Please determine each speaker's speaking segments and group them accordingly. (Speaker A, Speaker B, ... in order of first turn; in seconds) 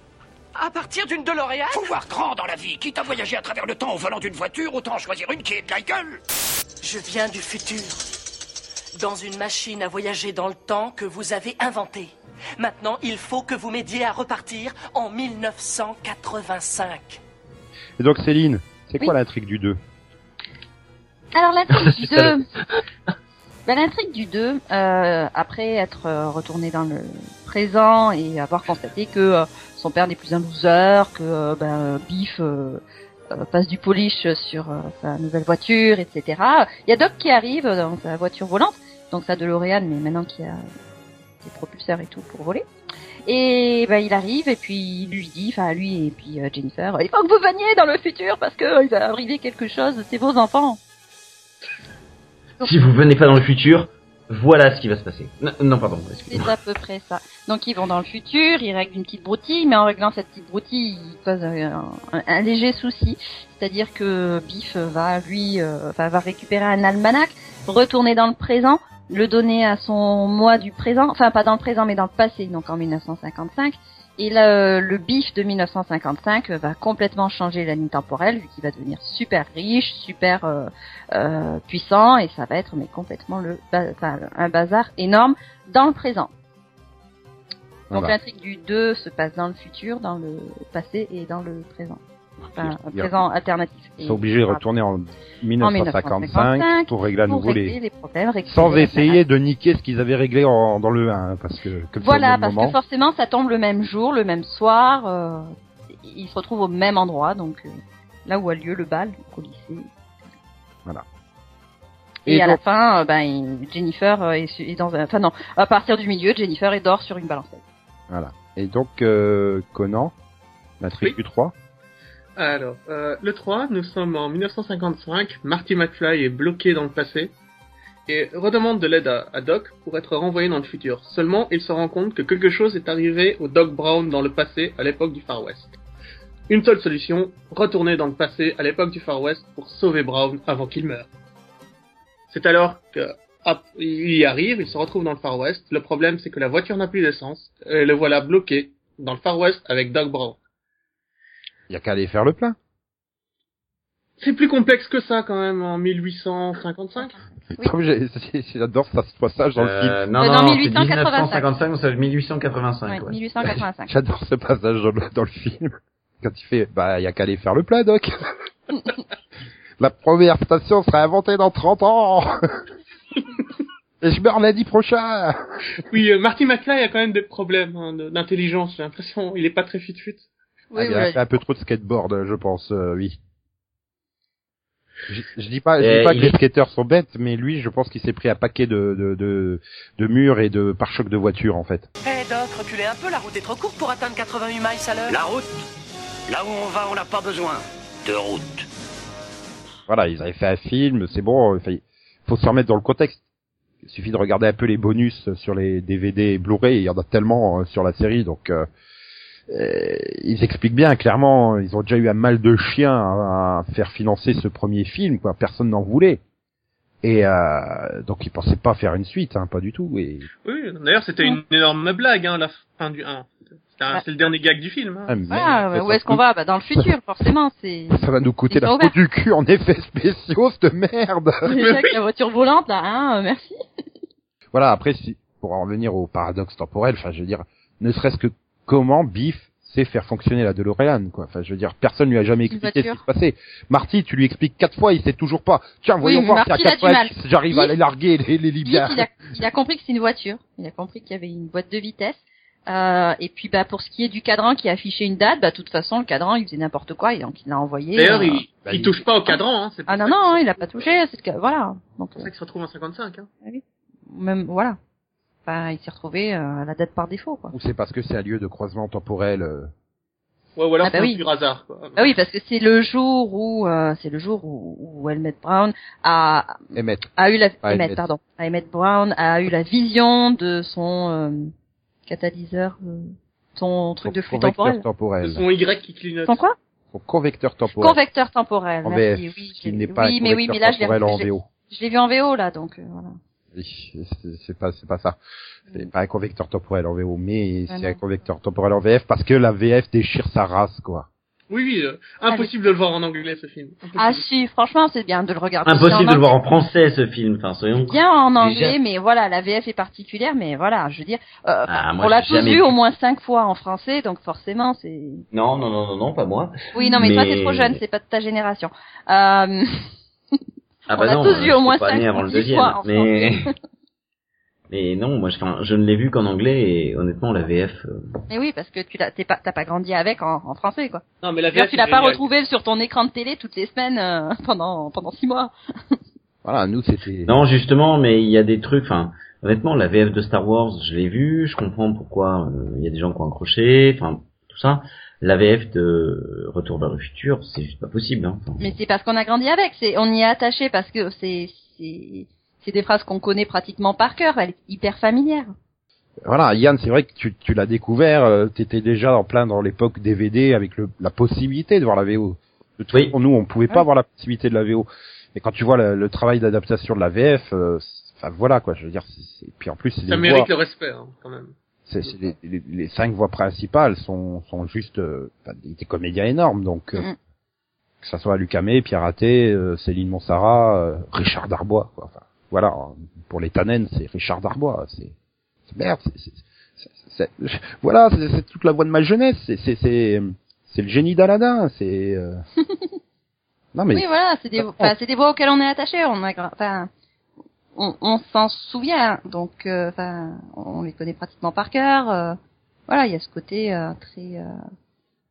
Speaker A: 0.6-2.0, 6.8-8.0, 9.0-17.2, 192.0-195.2
Speaker B: 1.7-6.2, 195.1-195.5, 196.3-198.7
Speaker C: 18.0-19.8, 87.9-88.2, 92.4-93.2, 94.0-97.8, 98.5-102.8, 112.3-112.6, 118.1-120.1, 120.8-121.5, 151.7-152.6, 157.6-160.0, 163.9-165.7, 166.2-168.2, 169.8-172.4, 174.0-175.4, 180.8-183.2, 185.1-191.9, 199.9-203.2, 203.8-208.7, 209.5-216.2, 217.0-220.3, 225.1-226.2, 227.9-231.4, 234.5-249.1, 258.7-259.0, 267.5-269.7, 276.7-278.0, 284.0-285.4, 286.9-288.0, 288.8-291.5, 293.5-295.2, 295.7-301.1, 336.4-337.3, 356.3-370.5, 371.9-377.1, 378.0-385.1, 385.7-392.4, 393.7-394.9
Speaker D: 21.3-22.5, 23.7-40.7, 41.4-42.6, 43.3-50.8, 56.3-86.3, 87.9-92.0, 92.5-94.6, 95.6-99.2, 102.0-109.9, 112.3-117.6, 160.2-161.5, 162.9-163.9, 180.7-181.2, 225.3-228.9, 231.4-233.6, 242.5-243.0, 246.0-247.7, 248.7-258.4, 259.3-262.3, 263.4-264.8, 265.5-267.5, 270.8-271.2, 272.0-276.6, 277.2-281.5, 282.1-284.8, 286.3-286.6, 287.8-293.2, 297.7-298.0, 302.2-302.5, 304.0-306.4, 307.8-315.2, 316.8-319.7, 320.9-323.5, 328.3-336.0, 348.6-355.5, 393.9-396.9, 397.8-402.4, 402.9-404.5
Speaker E: 21.7-22.8, 52.6-56.5, 159.6-163.2, 185.8-186.4, 305.6-308.8, 311.7-312.8, 315.3-317.8, 320.9-323.5, 324.7-328.2, 337.3-348.7
Speaker F: 122.4-127.3, 128.1-135.8, 136.5-141.1, 142.3-150.4, 154.2-157.2, 175.9-180.3, 220.4-225.2, 231.6-232.0, 257.9-260.9, 262.2-263.3, 270.6-272.1, 285.2-286.4, 301.5-304.2, 331.2-332.2, 370.1-372.1